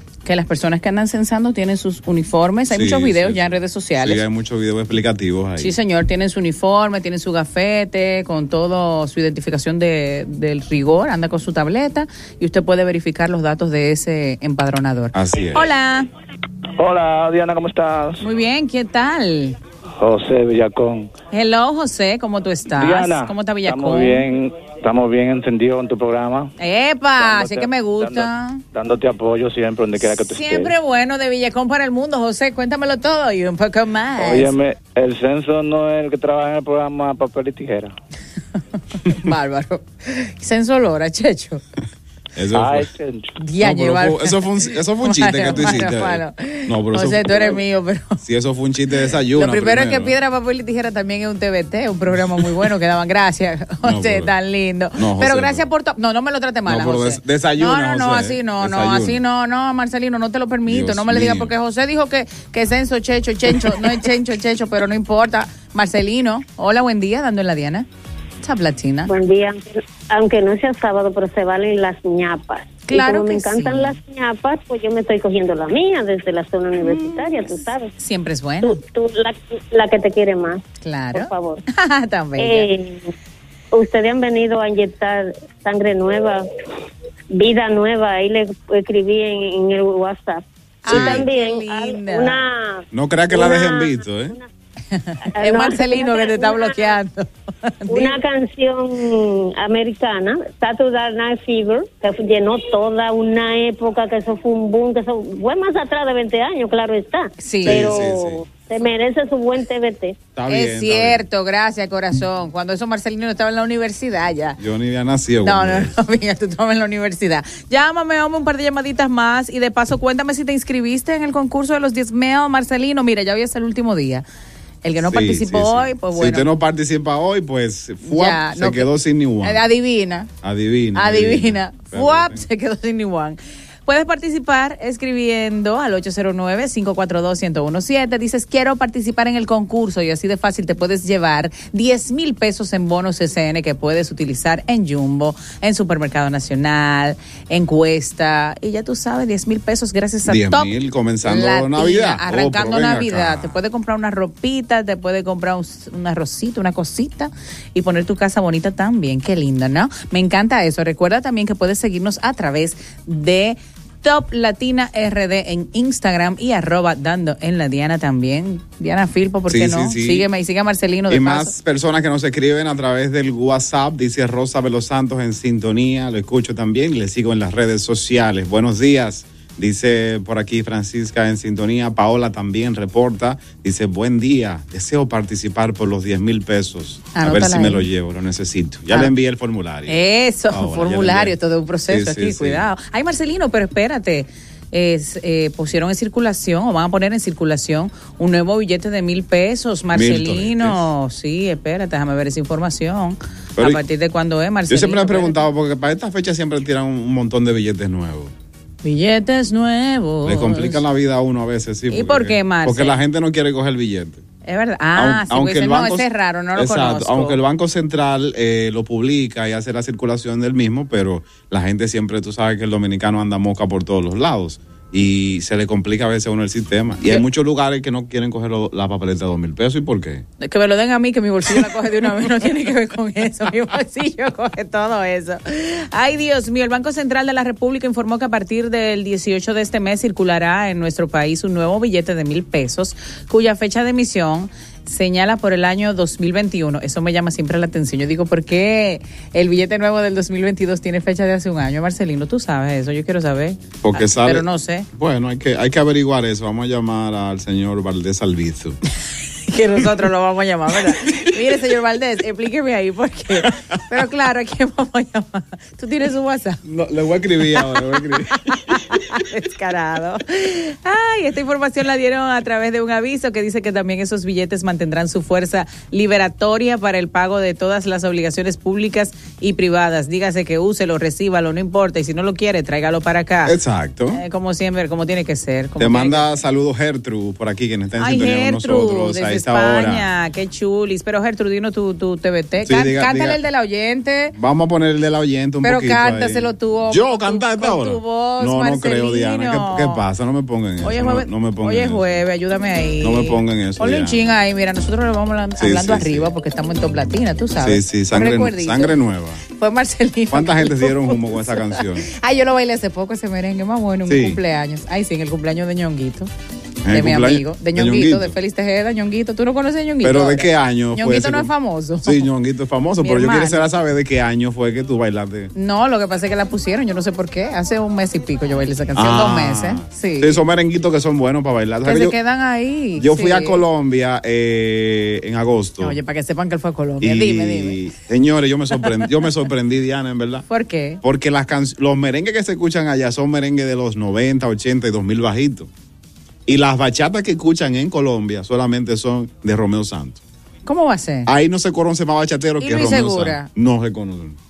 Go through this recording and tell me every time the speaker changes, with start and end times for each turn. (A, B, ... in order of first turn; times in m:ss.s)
0:00.2-0:04.2 A
0:02.7-0:05.8 B
0:05.6-0:16.1 A
0:15.1-0:15.7 B
0:16.8-0:18.2 C
0:18.2-0:19.6 A
0:20.0-0:21.1 C
0:21.3-0:24.2 A
0:22.7-0:26.5 C
0:26.6-0:28.6 A
0:27.2-0:30.7 C
0:30.3-0:34.5 A
0:34.2-0:37.9 C
0:39.0-0:41.6 A
0:42.4-0:42.8 B
0:42.5-0:43.3 C
0:43.4-0:48.2 A
0:43.6-0:47.6 B
0:48.2-0:50.1 B
0:49.3-1:07.8 A
0:53.8-0:54.3 B
0:54.9-0:55.6 B
0:56.6-0:59.2 B
1:00.6-1:01.5 B
1:08.4-1:09.1 A
1:09.1-1:17.9 D
1:12.9-1:14.0 A
1:16.8-1:18.8 A
1:18.6-1:20.6 D
1:20.8-1:22.7 A
1:21.1-1:21.6 D
1:22.4-1:23.0 D
1:23.7-1:26.4 D
1:27.3-1:34.5 D
1:30.8-1:32.4 A
1:30.9-1:31.2 B
1:32.9-1:34.4 B
1:34.9-1:38.2 A
1:35.4-1:37.0 D
1:37.9-1:50.2 D
1:47.4-1:48.0 A
1:47.6-1:48.4 B
1:50.4-1:51.2 B
1:50.5-1:54.6 A
1:54.6-1:55.9 B
1:55.4-2:04.2 A
2:04.8-2:06.5 A
2:05.0-2:09.7 B
2:08.0-2:10.3 A
2:10.4-2:12.4 B
2:10.9-2:30.7 A
2:30.2-2:33.6 B
2:31.2-2:51.5 A
2:49.5-2:50.3 B
2:51.1-3:12.7 B
3:07.1-3:07.9 A
3:09.9-3:25.4 A
3:19.9-3:20.9 B
3:23.6-3:23.8 B
3:24.7-3:28.3 B
3:28.8-3:30.8 A
3:30.2-3:34.2 B
3:31.9-3:33.0 A
3:34.4-3:37.4 A
3:34.9-3:50.2 B
3:50.4-4:14.9 A
4:13.8-4:18.8 B
4:19.5-4:26.6 A
4:26.6-4:28.8 B
4:27.5-4:43.6 A
4:43.4-4:44.2 B
4:44.1-4:46.3 A
4:45.8-4:50.1 B
4:48.0-4:54.3 A
4:52.6-4:53.4 B
4:54.3-5:02.0 B
4:55.6-5:00.0 A
5:00.8-5:09.0 A
5:03.0-5:04.3 B
5:05.6-5:06.3 B
5:07.5-5:09.4 B
5:09.5-5:16.3 A
5:10.3-5:12.1 B
5:14.0-5:14.4 B
5:16.8-5:18.3 B
5:16.9-5:22.3 A
5:20.0-5:25.5 B
5:23.0-5:23.7 A
5:25.5-5:30.4 A
5:28.9-5:32.2 B
5:31.8-5:33.6 A
5:33.0-5:36.0 B
5:35.8-5:37.8 A
5:37.0-5:40.4 B
5:40.5-5:41.0 A
5:41.0-5:45.7 B
5:46.5-5:50.2 B
5:50.6-5:51.3 A
5:51.2-5:54.4 B
5:52.6-5:53.5 A